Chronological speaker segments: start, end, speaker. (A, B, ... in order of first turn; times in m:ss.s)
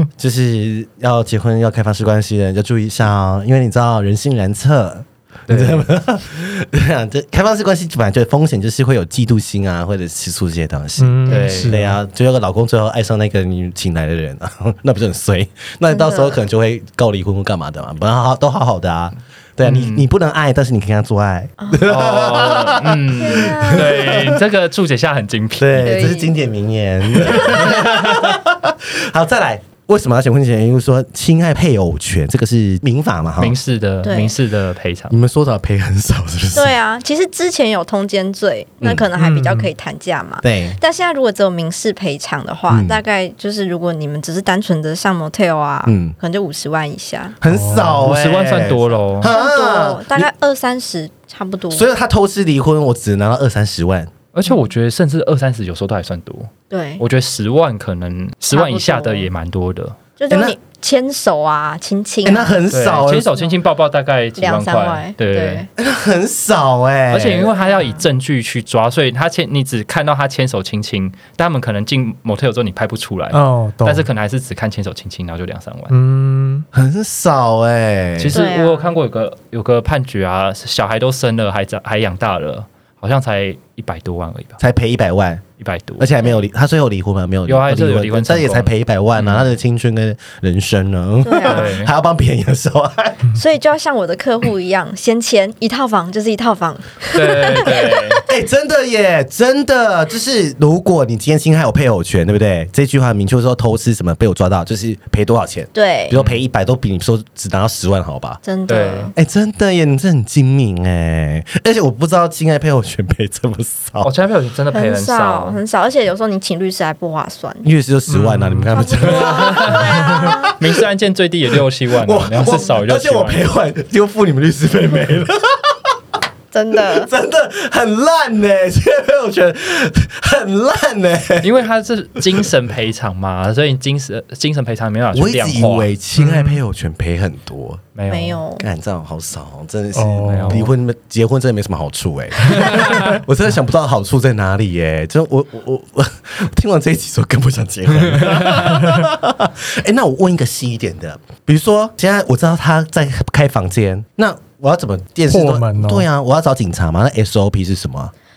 0:00.2-0:24.4 A
0:05.5-0:05.9 B
0:11.0-0:12.0 C
0:11.3-0:11.7 B
0:15.9-0:16.4 D
0:19.6-0:20.1 B
0:21.6-0:21.9 D
0:21.8-0:25.8 B
0:23.2-0:23.9 D
0:25.6-0:33.6 A
0:25.8-0:26.3 D
0:27.2-0:27.7 D
0:27.5-0:28.2 B
0:33.4-0:35.1 B
0:34.0-0:34.3 D
0:35.1-0:36.8 A
0:36.5-0:47.4 D
0:39.2-0:39.7 C
0:40.4-0:40.8 A
0:42.7-0:43.0 A
0:45.8-0:46.2 A
0:47.4-0:50.3 A
0:47.5-0:48.1 C
0:48.0-0:49.3 B
0:49.2-0:51.8 D
0:51.7-0:54.1 A
0:54.3-1:00.0 B
0:56.7-0:57.0 D
0:58.5-0:59.3 D
1:00.2-1:02.6 D
1:00.3-1:00.6 A
1:02.2-1:03.4 A
1:02.7-1:05.6 B
1:04.4-1:05.7 D
1:05.8-1:07.5 A
1:07.1-1:15.9 B
1:07.4-1:08.0 D
1:13.3-1:14.1 C
1:15.9-1:16.6 C
1:16.7-1:18.4 A
1:18.2-1:24.6 B
1:18.3-1:18.9 D
1:24.6-1:25.4 A
1:25.6-1:26.1 B
1:26.0-1:33.3 A
1:27.4-1:29.5 B
1:31.2-1:31.7 D
1:31.3-1:31.9 B
1:33.3-1:38.1 D
1:37.1-1:38.2 B
1:38.2-1:48.4 A
1:45.7-1:46.1 D
1:46.1-1:46.4 B
1:48.4-1:49.1 D
1:48.7-1:49.1 B
1:49.2-1:54.1 A
1:54.0-1:55.6 B
1:54.7-1:57.7 D
1:57.6-2:00.6 A
1:58.1-1:58.6 C
1:58.7-2:00.6 D
1:59.0-2:03.5 B
2:02.0-2:05.9 A
2:06.5-2:07.1 D
2:06.8-2:11.5 A
2:11.4-2:15.9 B
2:15.1-2:17.8 A
2:16.2-2:16.5 C
2:17.9-2:18.4 B
2:18.1-2:18.7 D
2:18.6-2:38.1 A
2:19.9-2:20.7 C
2:20.2-2:20.7 B
2:22.6-2:23.0 B
2:35.3-2:36.1 C